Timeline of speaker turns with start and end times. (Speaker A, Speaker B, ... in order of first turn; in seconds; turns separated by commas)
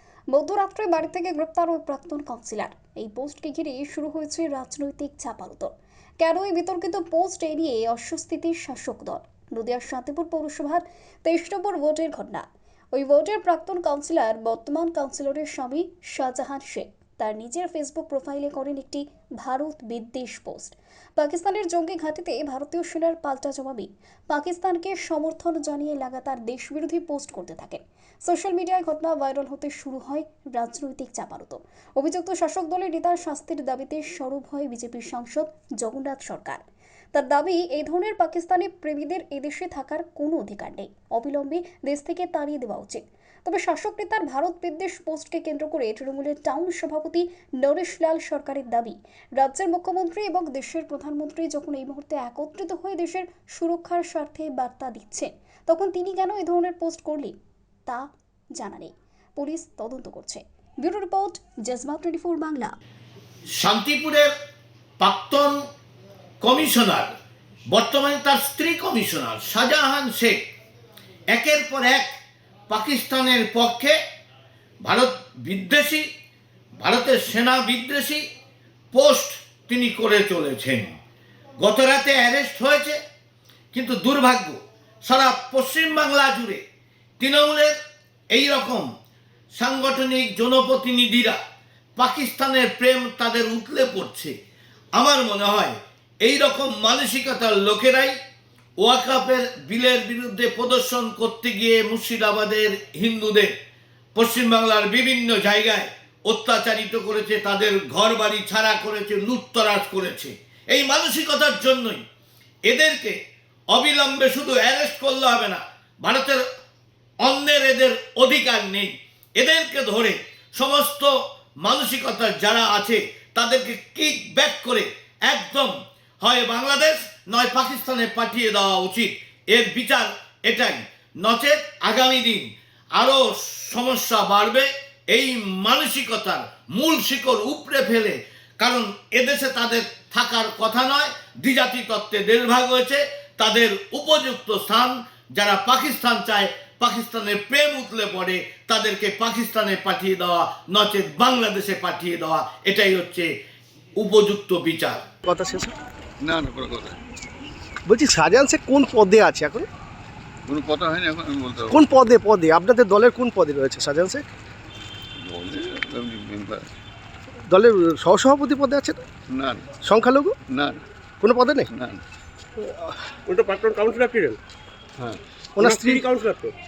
Speaker A: 0.3-36.6, Speaker A: 37.1-62.8, Speaker B: 63.6-64.3, Speaker B: 65.0-65.6, Speaker B: 66.4-67.1, Speaker B: 67.7-70.4, Speaker B: 71.3-72.1, Speaker B: 72.7-74.0, Speaker B: 74.8-76.0, Speaker B: 76.8-78.2, Speaker B: 78.9-80.9, Speaker B: 81.6-83.0, Speaker B: 83.7-86.6, Speaker B: 87.2-87.7, Speaker B: 88.3-88.9, Speaker B: 89.5-91.4, Speaker B: 92.0-94.3, Speaker B: 95.0-98.1, Speaker B: 98.8-103.5, Speaker B: 104.2-112.0, Speaker B: 112.7-113.1, Speaker B: 113.7-116.4, Speaker B: 117.2-121.1, Speaker B: 121.6-153.3, Speaker B: 154.0-155.0, Speaker C: 155.2-155.7, Speaker D: 156.2-157.0, Speaker C: 157.9-159.7, Speaker D: 160.5-161.8, Speaker C: 161.7-164.2, Speaker D: 165.2-166.7, Speaker C: 167.5-169.0, Speaker D: 169.3-169.7, Speaker C: 169.8-170.3, Speaker D: 170.5-170.8, Speaker C: 171.2-171.7, Speaker D: 171.7-172.0, Speaker C: 172.6-172.9, Speaker E: 173.3-174.4, Speaker C: 175.6-176.0, Speaker E: 175.6-176.5